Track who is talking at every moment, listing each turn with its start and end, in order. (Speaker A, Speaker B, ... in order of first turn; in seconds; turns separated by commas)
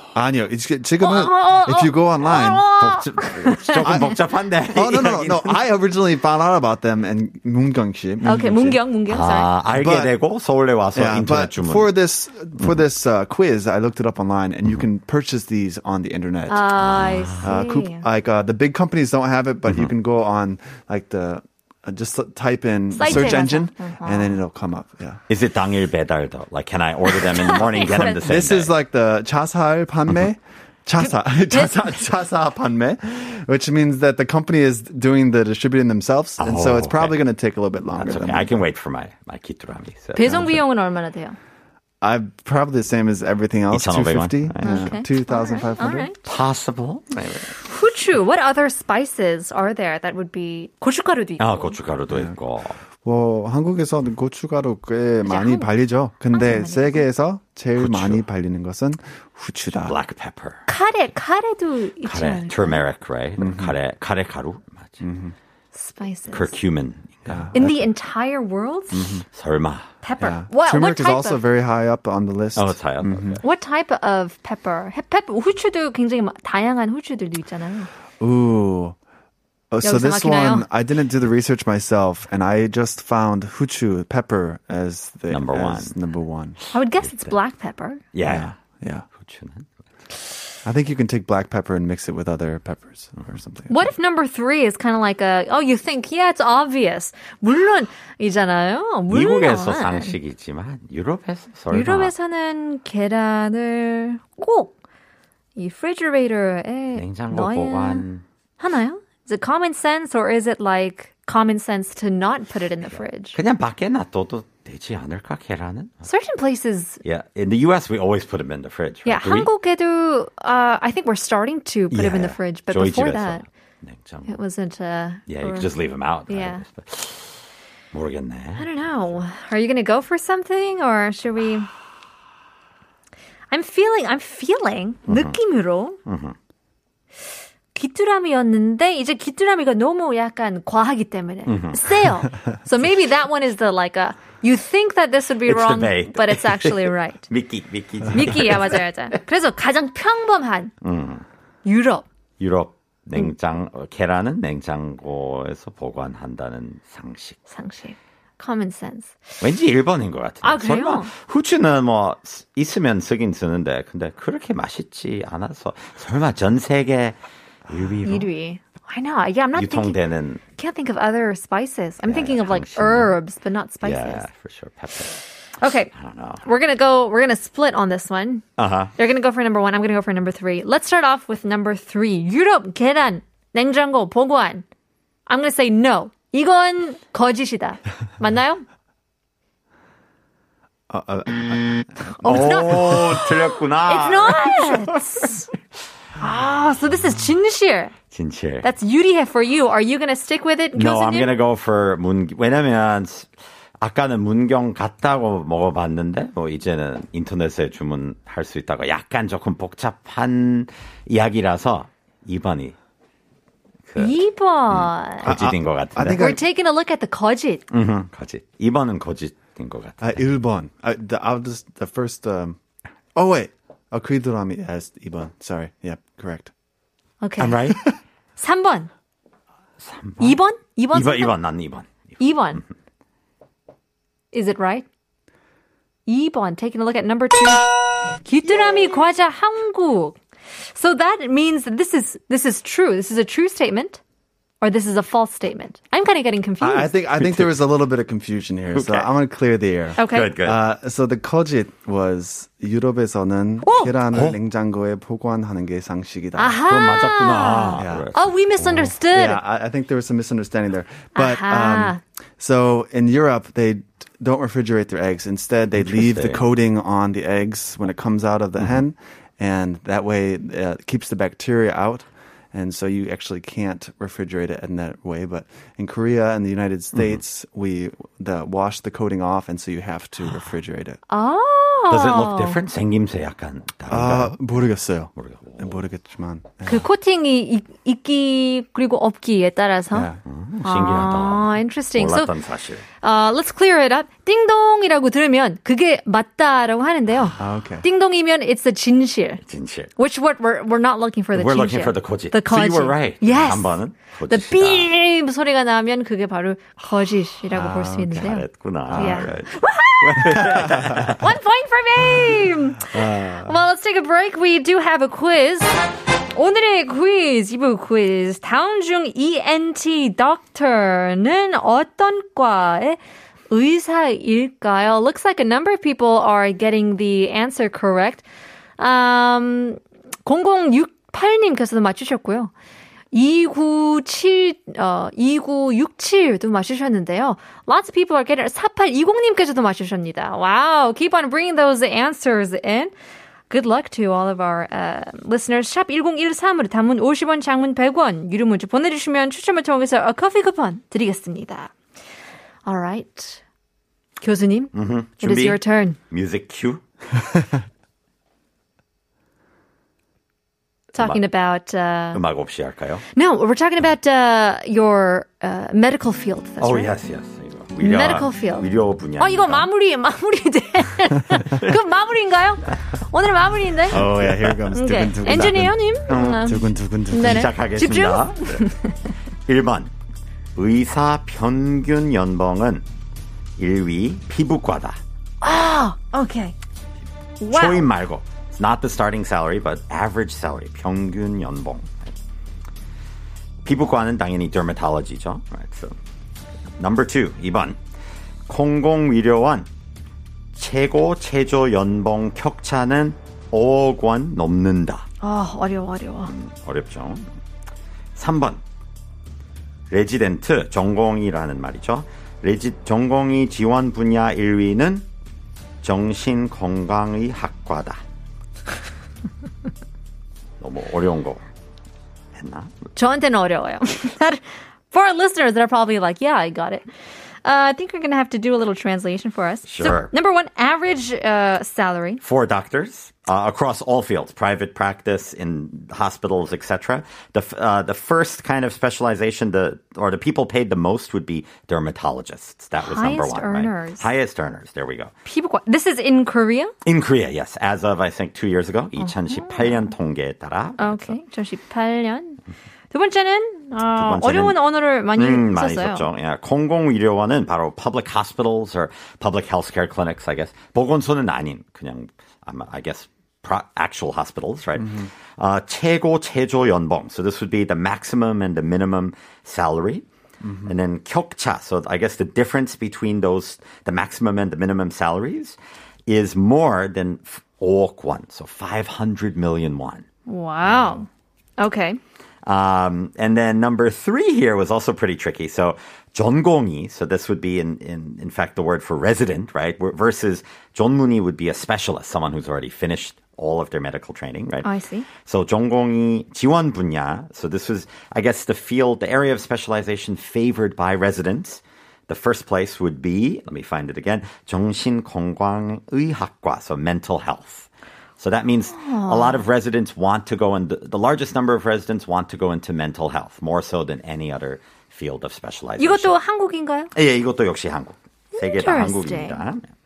Speaker A: 0.1-2.7, Speaker B: 1.0-4.1, Speaker C: 2.2-5.6, Speaker A: 3.8-4.2, Speaker A: 4.7-8.9, Speaker B: 8.2-9.5, Speaker C: 9.1-11.9, Speaker A: 9.7-10.2, Speaker A: 10.9-16.7, Speaker B: 16.5-18.1, Speaker C: 16.8-17.5, Speaker A: 17.4-25.2, Speaker B: 22.9-24.4, Speaker C: 23.0-23.5, Speaker C: 25.3-28.8, Speaker B: 27.1-28.2, Speaker A: 27.7-38.6, Speaker B: 31.0-32.0, Speaker C: 36.4-37.2, Speaker C: 38.0-40.4, Speaker B: 40.1-41.4, Speaker A: 40.2-40.6, Speaker A: 42.0-46.1, Speaker C: 43.7-45.0, Speaker B: 44.6-46.2, Speaker C: 46.2-47.5, Speaker B: 47.5-51.8, Speaker C: 51.4-52.8, Speaker A: 53.0-60.0, Speaker B: 55.2-55.7, Speaker B: 56.3-57.1, Speaker C: 57.8-58.2, Speaker C: 59.7-60.6, Speaker B: 60.7-62.8, Speaker C: 62.0-65.0, Speaker A: 63.4-63.8, Speaker A: 65.0-65.3, Speaker B: 65.7-66.5, Speaker C: 66.3-67.5, Speaker A: 67.3-67.9, Speaker B: 67.5-69.2, Speaker A: 68.9-69.2, Speaker C: 69.3-69.8, Speaker B: 70.0-71.4, Speaker A: 70.2-73.4, Speaker C: 72.5-73.4, Speaker B: 73.4-77.9, Speaker A: 78.2-79.0, Speaker A: 79.7-86.6, Speaker B: 79.8-80.7, Speaker C: 85.3-86.0, Speaker B: 86.7-88.0, Speaker C: 88.1-88.6, Speaker A: 88.2-89.1, Speaker C: 89.2-89.7, Speaker A: 90.7-93.9, Speaker B: 93.7-100.2, Speaker C: 99.1-102.1, Speaker B: 101.7-104.7, Speaker B: 105.6-108.0, Speaker C: 106.9-108.2, Speaker B: 108.6-113.4, Speaker C: 112.9-116.0, Speaker B: 116.0-117.0, Speaker C: 117.0-119.5, Speaker B: 119.0-123.5, Speaker C: 121.9-124.3, Speaker B: 124.3-126.6, Speaker C: 125.3-127.4, Speaker C: 127.9-129.1, Speaker B: 128.6-131.7, Speaker B: 133.5-136.0, Speaker C: 135.1-135.4, Speaker C: 136.1-136.4, Speaker B: 137.7-147.3, Speaker C: 141.5-142.2, Speaker C: 145.4-149.2, Speaker B: 148.1-150.7, Speaker C: 150.8-151.2, Speaker B: 151.7-152.1, Speaker C: 152.4-157.4, Speaker B: 157.5-159.2, Speaker C: 159.4-167.2, Speaker B: 160.4-161.1, Speaker C: 167.7-168.3, Speaker B: 168.0-170.0, Speaker C: 169.6-170.4, Speaker B: 170.6-174.3, Speaker C: 172.0-173.2, Speaker C: 173.8-175.2, Speaker B: 175.6-184.7, Speaker C: 175.9-176.4, Speaker C: 178.6-178.9, Speaker B: 185.3-188.7, Speaker A: 190.9-192.8, Speaker B: 192.2-195.5, Speaker C: 192.2-195.0, Speaker B: 196.2-197.9, Speaker C: 198.1-198.7, Speaker B: 198.6-201.4, Speaker C: 200.7-203.3, Speaker C: 203.8-212.8, Speaker C: 213.9-216.4, Speaker B: 214.0-215.3, Speaker A: 215.2-216.4, Speaker B: 216.1-217.7, Speaker C: 217.7-220.2, Speaker A: 220.0-222.6, Speaker A: 223.2-226.5, Speaker B: 227.2-227.6, Speaker C: 227.4-227.8, Speaker A: 227.5-228.0, Speaker B: 228.4-228.9, Speaker C: 229.8-230.4, Speaker B: 230.2-231.4, Speaker C: 230.9-232.6, Speaker B: 232.2-232.6, Speaker B: 234.3-234.9, Speaker B: 236.1-237.7, Speaker B: 238.2-240.2, Speaker B: 240.7-244.0, Speaker B: 244.6-246.9, Speaker A: 246.6-256.6, Speaker C: 247.2-247.6, Speaker C: 248.7-249.1, Speaker B: 250.0-250.3, Speaker C: 250.0-250.6, Speaker B: 253.6-254.0, Speaker C: 254.1-254.4, Speaker B: 256.4-259.4, Speaker C: 256.7-258.3, Speaker A: 257.8-258.1, Speaker A: 258.6-281.0, Speaker B: 261.1-262.0, Speaker C: 265.8-266.5, Speaker C: 276.9-277.2, Speaker B: 281.1-282.6, Speaker C: 281.9-284.6, Speaker A: 283.9-286.9, Speaker C: 285.2-285.8, Speaker B: 286.7-290.1, Speaker A: 289.9-290.2, Speaker C: 290.2-292.9, Speaker B: 290.6-292.3, Speaker B: 293.0-299.4, Speaker A: 297.4-297.9, Speaker C: 299.4-299.9, Speaker B: 300.0-310.5, Speaker C: 301.3-304.9, Speaker A: 307.5-308.3, Speaker C: 308.1-311.3, Speaker A: 308.9-309.3, Speaker A: 310.3-311.1, Speaker B: 311.1-315.8, Speaker A: 312.9-313.6, Speaker B: 316.3-323.0, Speaker B: 323.5-328.2, Speaker B: 328.8-332.5, Speaker B: 333.1-342.9, Speaker B: 343.5-351.7, Speaker B: 352.7-353.4, Speaker B: 354.2-356.0, Speaker C: 354.7-356.8, Speaker B: 360.9-362.2, Speaker C: 361.0-361.2, Speaker C: 362.1-363.0, Speaker B: 363.1-367.0, Speaker C: 366.6-369.7, Speaker B: 367.8-374.0, Speaker A: 373.9-377.5, Speaker C: 373.9-374.7, Speaker B: 374.7-378.9, Speaker C: 376.1-376.6, Speaker C: 377.2-378.7, Speaker C: 379.5-379.9, Speaker C: 380.6-382.8, Speaker C: 383.6-385.0, Speaker B: 385.4-386.6, Speaker B: 387.4-387.9, Speaker C: 387.5-392.1, Speaker C: 393.6-395.9, Speaker C: 396.8-397.8, Speaker C: 398.5-399.7, Speaker C: 400.6-405.1, Speaker B: 405.2-406.3, Speaker C: 406.3-407.3, Speaker C: 408.2-408.6, Speaker C: 409.9-415.1, Speaker C: 415.8-418.0, Speaker C: 420.6-421.4, Speaker C: 422.4-422.7, Speaker B: 423.0-426.9, Speaker B: 427.4-432.2, Speaker C: 429.7-430.1, Speaker C: 432.2-445.1, Speaker B: 442.8-444.1, Speaker B: 445.2-446.7, Speaker C: 446.9-451.2, Speaker B: 449.0-449.9, Speaker B: 450.8-456.1, Speaker C: 453.9-470.1, Speaker A: 464.8-465.1, Speaker A: 470.4-470.8, Speaker C: 470.6-480.1, Speaker B: 480.3-481.1, Speaker A: 480.6-481.0, Speaker B: 481.6-482.0, Speaker C: 482.4-494.7, Speaker B: 494.6-495.1, Speaker C: 495.2-516.1, Speaker B: 508.7-509.4, Speaker B: 515.8-516.9, Speaker C: 516.9-519.7, Speaker B: 518.4-519.4